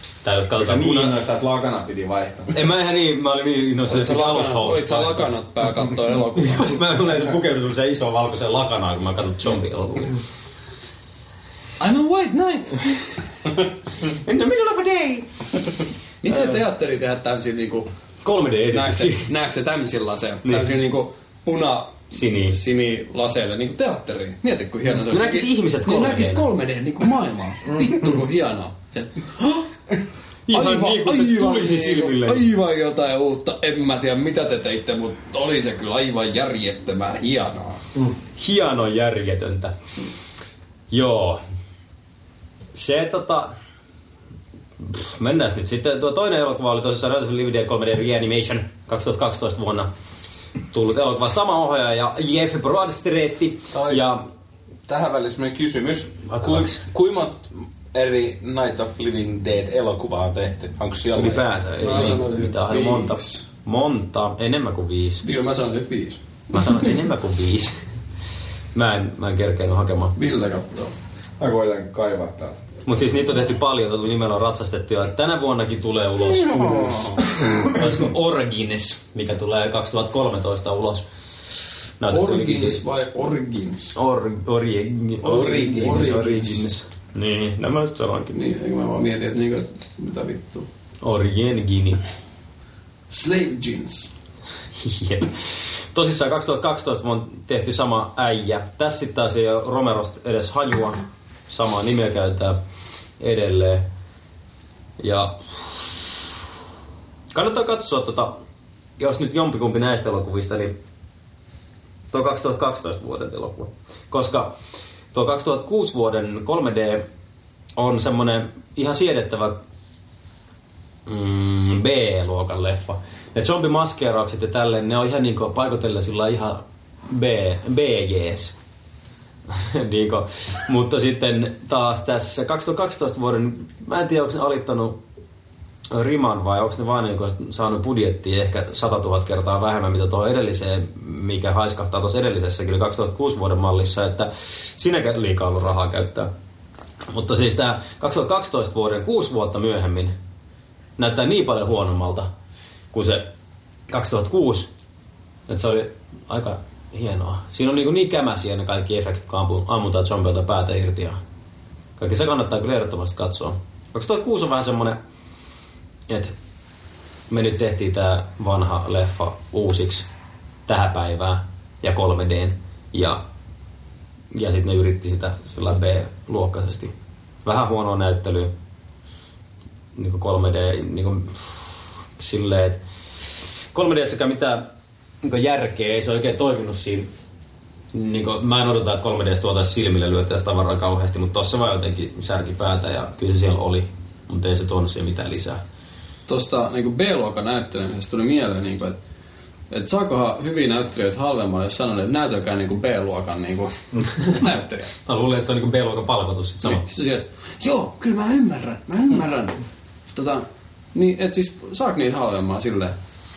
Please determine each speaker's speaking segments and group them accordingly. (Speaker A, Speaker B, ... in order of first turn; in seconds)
Speaker A: 0.2-1.1, 2.5-5.3, 6.4-10.2, 14.1-15.3, 16.3-16.6, 18.2-19.3, 20.4-20.7, 22.1-22.6, 24.9-26.4, 30.5-32.5, 38.3-39.7, 40.9-41.4, 42.7-43.5, 44.8-49.9, 50.7-54.2, 56.3-56.8, 61.1-65.2, 66.5-67.7, 68.7-70.1, 72.8-81.0, 82.0-82.8, 83.9-88.3, 91.0-92.0, 94.8-102.6, 103.2-103.8, 105.0-106.2, 107.3-108.3, 109.0-110.7, 112.1-114.5, 115.1-117.0, 117.8-119.6, 121.0-128.5, 129.5-135.0, 135.9-146.3, 147.1-150.1, 151.0-152.3, 152.9-153.2, 153.9-154.7, 155.5-161.2, 162.0-165.0, 166.1-166.3, 167.3-170.1, 170.7-173.2, 174.3-176.9, 177.4-178.5, 179.9-181.6, 182.2-182.8, 183.7-184.7, 185.2-187.1, 187.9-195.6, 205.1-206.8
Speaker B: 0.6-2.5, 71.4-72.6
Speaker C: 3.9-6.8, 11.8-12.9, 16.2-17.9, 18.7-29.7, 30.5-37.8, 61.8-63.4, 65.2-66.2, 70.1-70.9, 82.1-84.0, 85.5-86.6, 88.3-90.7, 93.1-94.1, 196.3-199.0, 199.7-204.9, 206.6-209.6, 210.1-212.9
Speaker D: 53.7-54.0, 54.9-61.4, 85.2-86.4